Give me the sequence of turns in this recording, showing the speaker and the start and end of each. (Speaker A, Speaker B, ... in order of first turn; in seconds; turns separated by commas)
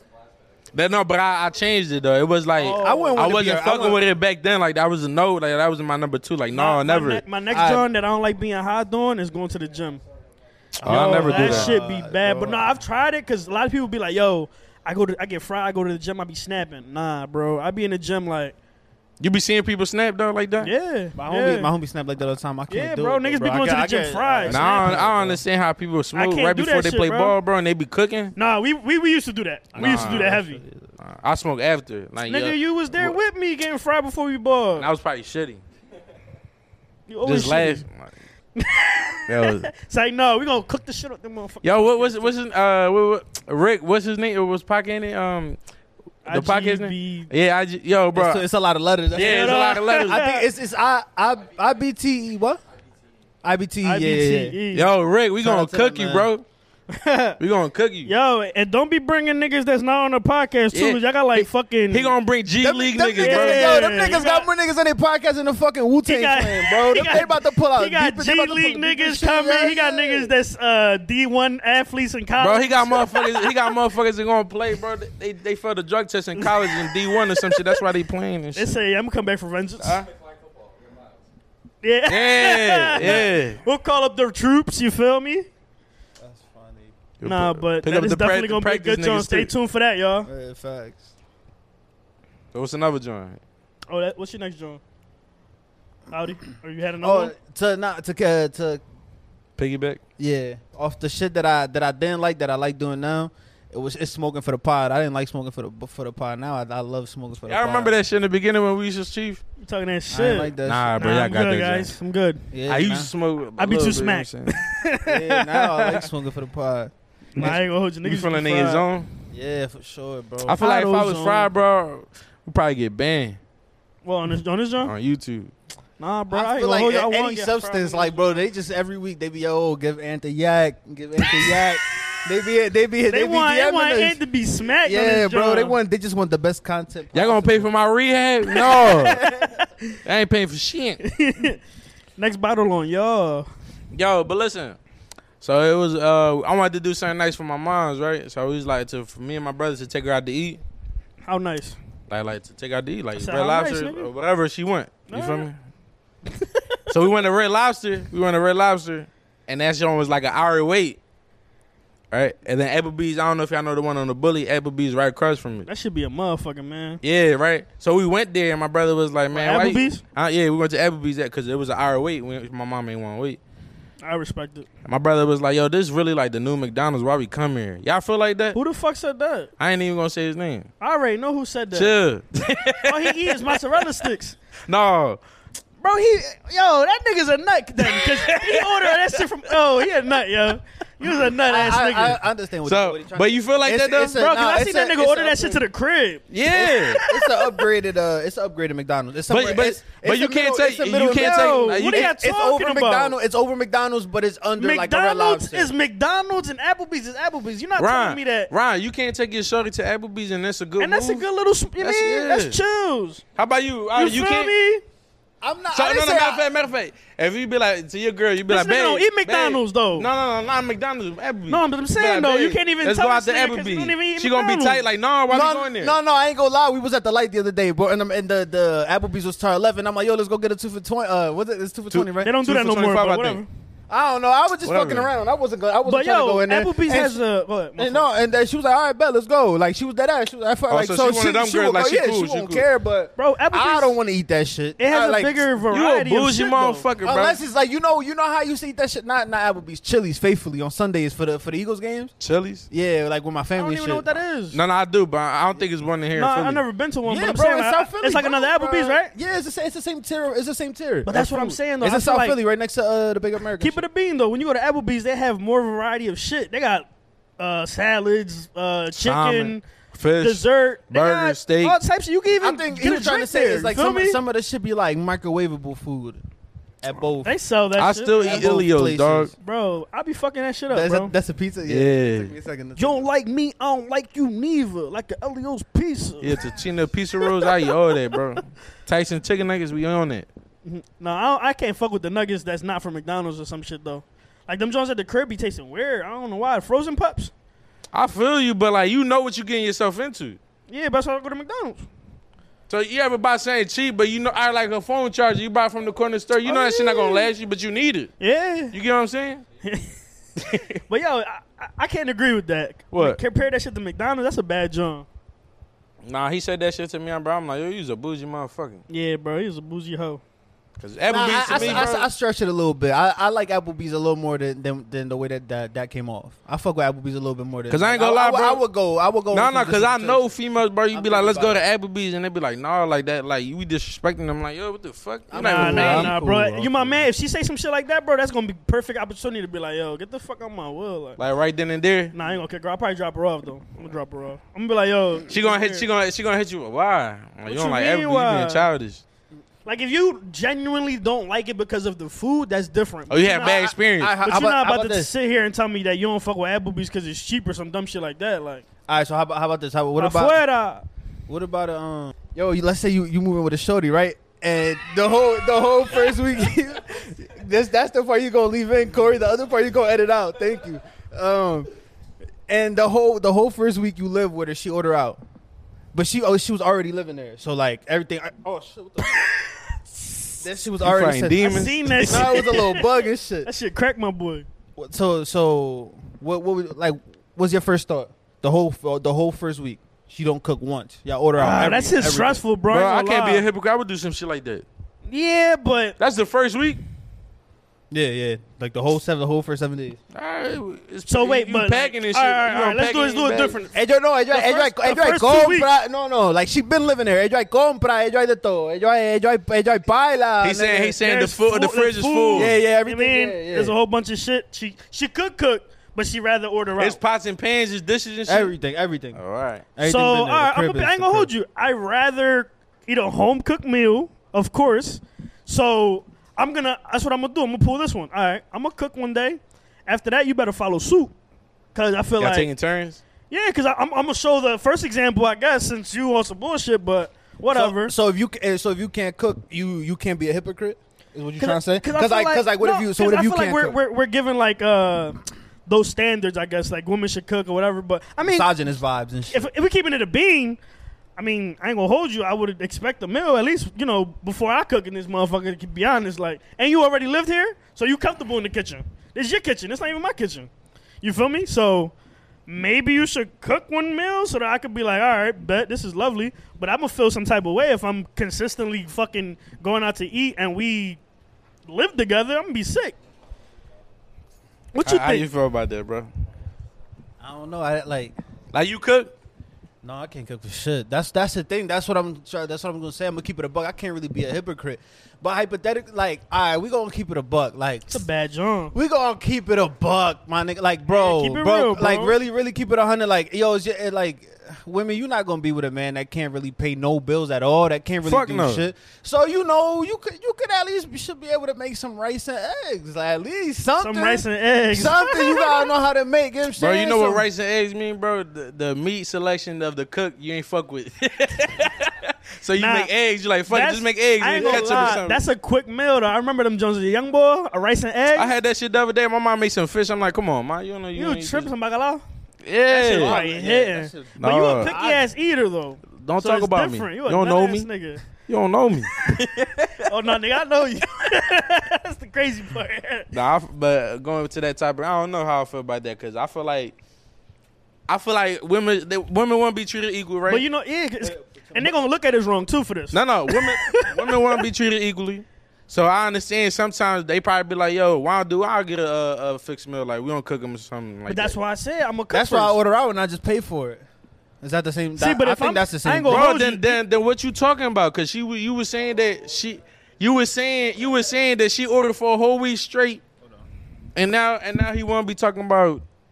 Speaker A: 0.7-7.2, Speaker B: 2.6-3.2, Speaker C: 2.7-4.0, Speaker B: 6.5-10.0, Speaker C: 7.5-7.8, Speaker C: 10.8-12.7, Speaker A: 10.8-11.7, Speaker B: 10.8-18.6, Speaker A: 19.2-20.7, Speaker B: 20.6-21.7, Speaker C: 21.1-25.4, Speaker B: 22.7-25.1, Speaker A: 24.5-28.3, Speaker B: 26.1-27.4, Speaker B: 28.3-30.6, Speaker C: 29.7-30.9, Speaker A: 29.8-30.3, Speaker A: 31.0-33.2, Speaker B: 32.2-34.9, Speaker A: 34.8-35.6, Speaker B: 37.1-37.8, Speaker A: 37.2-38.1, Speaker B: 38.5-42.4, Speaker A: 39.3-39.7, Speaker A: 41.6-45.6, Speaker B: 46.2-47.3, Speaker A: 46.3-48.4, Speaker C: 48.1-52.6, Speaker A: 49.1-50.2, Speaker B: 49.1-50.4, Speaker C: 53.4-54.6, Speaker B: 53.8-54.9, Speaker A: 54.7-56.5, Speaker C: 55.4-56.3, Speaker B: 56.9-57.4, Speaker A: 57.4-58.1, Speaker B: 58.0-62.1, Speaker A: 60.7-63.9, Speaker C: 62.6-70.3, Speaker B: 63.2-64.5, Speaker B: 66.0-73.8, Speaker A: 72.4-78.7, Speaker B: 76.4-77.8, Speaker B: 78.5-80.0, Speaker A: 79.8-80.0, Speaker B: 81.8-85.5, Speaker A: 82.1-83.6, Speaker C: 86.2-86.9, Speaker A: 87.2-89.5, Speaker B: 87.2-90.3, Speaker C: 90.2-91.1, Speaker A: 92.5-93.4, Speaker B: 93.9-94.8, Speaker B: 96.1-97.3, Speaker C: 97.0-98.8, Speaker A: 99.6-100.0, Speaker C: 100.2-107.9, Speaker A: 107.5-109.4, Speaker B: 109.6-112.4, Speaker C: 110.1-110.9, Speaker A: 110.6-111.9, Speaker C: 112.5-113.1, Speaker A: 112.7-114.6, Speaker B: 113.6-116.1, Speaker C: 115.0-117.6, Speaker B: 117.3-118.8, Speaker A: 117.4-119.1, Speaker C: 119.3-120.6, Speaker A: 120.5-123.4, Speaker B: 120.6-121.5, Speaker B: 124.0-124.9, Speaker A: 124.8-125.5, Speaker B: 126.0-128.2, Speaker C: 126.3-134.2, Speaker B: 131.2-132.2, Speaker B: 133.1-135.8, Speaker C: 134.8-137.7, Speaker A: 137.1-139.2, Speaker C: 138.5-139.6, Speaker B: 138.6-139.9, Speaker A: 140.0-141.0, Speaker B: 141.0-141.6, Speaker B: 142.2-143.5, Speaker A: 143.9-144.8, Speaker A: 145.4-150.6, Speaker B: 151.2-151.8, Speaker A: 152.1-155.6, Speaker B: 153.2-154.1, Speaker B: 155.1-155.5, Speaker B: 156.3-156.8, Speaker A: 156.9-161.0, Speaker A: 162.1-165.7, Speaker B: 165.7-167.0, Speaker A: 167.0-173.4, Speaker B: 169.3-170.0, Speaker B: 174.0-174.7, Speaker A: 174.8-178.6, Speaker B: 178.5-179.5, Speaker A: 179.6-180.7, Speaker B: 180.8-181.9, Speaker A: 181.7-183.6, Speaker B: 182.8-184.4, Speaker A: 184.7-185.2, Speaker B: 185.8-192.2, Speaker A: 187.8-189.2, Speaker C: 191.4-195.6, Speaker A: 192.7-194.2, Speaker B: 194.1-197.6, Speaker A: 196.3-197.0, Speaker C: 196.5-205.7, Speaker A: 199.3-202.1, Speaker B: 201.1-203.1, Speaker B: 204.6-208.5, Speaker A: 207.8-211.2, Speaker B: 210.8-213.2, Speaker A: 211.8-212.6, Speaker A: 213.3-214.5, Speaker B: 213.9-214.8, Speaker C: 215.4-216.5, Speaker A: 215.7-225.9, Speaker B: 218.5-220.1, Speaker B: 221.5-224.8, Speaker C: 225.3-232.3, Speaker A: 231.9-233.4, Speaker B: 232.2-233.5, Speaker C: 233.9-237.2, Speaker A: 234.6-235.1, Speaker B: 235.8-238.1, Speaker C: 237.8-245.5, Speaker A: 240.7-242.6, Speaker B: 243.2-243.9, Speaker B: 244.8-246.8, Speaker A: 245.7-247.4, Speaker C: 247.0-252.1, Speaker A: 252.2-252.7, Speaker C: 252.7-254.2, Speaker B: 253.6-254.6, Speaker A: 254.5-256.6, Speaker B: 256.1-259.1, Speaker C: 257.1-263.8, Speaker B: 261.1-262.4, Speaker B: 263.6-266.9, Speaker B: 267.4-269.6, Speaker A: 268.9-271.8, Speaker B: 270.2-274.2, Speaker C: 272.4-276.2, Speaker C: 276.8-277.4, Speaker B: 277.2-278.5, Speaker A: 277.8-279.3, Speaker C: 278.2-279.3, Speaker B: 279.4-281.1, Speaker C: 280.7-283.1, Speaker A: 281.7-282.3, Speaker B: 282.8-286.5, Speaker A: 286.2-290.3, Speaker B: 287.2-287.7, Speaker B: 290.6-297.3, Speaker A: 297.9-300.4, Speaker B: 300.7-301.9, Speaker A: 302.7-308.1, Speaker B: 306.4-307.3, Speaker B: 308.2-308.7, Speaker A: 308.7-309.4, Speaker B: 309.6-309.9, Speaker A: 310.4-310.8, Speaker B: 310.9-315.1, Speaker A: 312.9-313.2, Speaker A: 316.0-318.8, Speaker B: 318.9-320.2, Speaker A: 320.8-321.9, Speaker C: 321.1-330.2, Speaker B: 321.1-322.1, Speaker A: 327.7-328.6, Speaker A: 329.3-336.1, Speaker C: 330.9-331.6, Speaker C: 335.3-337.0, Speaker B: 335.4-341.2, Speaker A: 341.2-342.1, Speaker B: 342.1-345.9, Speaker A: 345.3-349.0, Speaker B: 347.4-348.7, Speaker B: 349.6-358.6, Speaker A: 353.1-354.2, Speaker C: 353.4-355.1, Speaker C: 358.9-360.4, Speaker B: 360.0-360.8, Speaker C: 361.3-371.7, Speaker C: 372.5-375.2, Speaker C: 375.9-379.2, Speaker C: 380.4-381.5, Speaker A: 380.8-382.4, Speaker B: 381.4-384.4, Speaker C: 382.0-383.5, Speaker C: 384.8-392.4, Speaker B: 391.4-393.4, Speaker A: 392.7-394.6, Speaker B: 395.1-396.0, Speaker A: 396.0-396.8, Speaker C: 397.9-400.0, Speaker A: 400.1-403.6, Speaker B: 401.1-403.7, Speaker C: 403.7-411.0, Speaker B: 404.3-405.7, Speaker A: 410.4-412.5, Speaker B: 411.0-417.0, Speaker C: 412.3-413.7, Speaker A: 416.8-418.5, Speaker C: 418.3-419.2, Speaker A: 419.1-419.6, Speaker C: 419.8-421.3, Speaker B: 419.8-431.1, Speaker B: 431.7-432.5, Speaker A: 432.2-433.0, Speaker B: 433.3-437.9, Speaker C: 437.5-443.8, Speaker B: 441.4-448.5, Speaker C: 448.2-449.5, Speaker B: 449.3-450.6, Speaker B: 451.2-460.5, Speaker B: 461.0-461.9, Speaker B: 462.5-471.0, Speaker B: 471.7-472.9, Speaker B: 474.7-475.2, Speaker A: 474.8-476.1, Speaker C: 477.2-478.1, Speaker A: 478.5-479.1, Speaker C: 479.8-488.0, Speaker B: 487.9-488.7, Speaker C: 488.7-507.2, Speaker B: 490.9-492.1, Speaker A: 498.0-498.6, Speaker B: 503.8-505.7, Speaker A: 506.6-515.2, Speaker B: 512.6-512.9, Speaker B: 513.5-518.3, Speaker C: 514.3-515.0, Speaker A: 518.1-521.5, Speaker B: 520.9-522.0, Speaker A: 522.4-523.2, Speaker B: 522.7-528.0, Speaker C: 522.9-525.0, Speaker A: 524.2-524.7, Speaker A: 526.0-529.9, Speaker B: 529.9-533.1, Speaker A: 533.1-536.8, Speaker A: 537.9-540.4, Speaker B: 540.3-544.4, Speaker C: 541.0-541.8, Speaker A: 542.9-551.4, Speaker B: 551.1-552.6, Speaker C: 552.1-553.8, Speaker C: 554.4-556.3, Speaker B: 555.0-556.8, Speaker A: 556.1-563.0, Speaker A: 564.0-565.8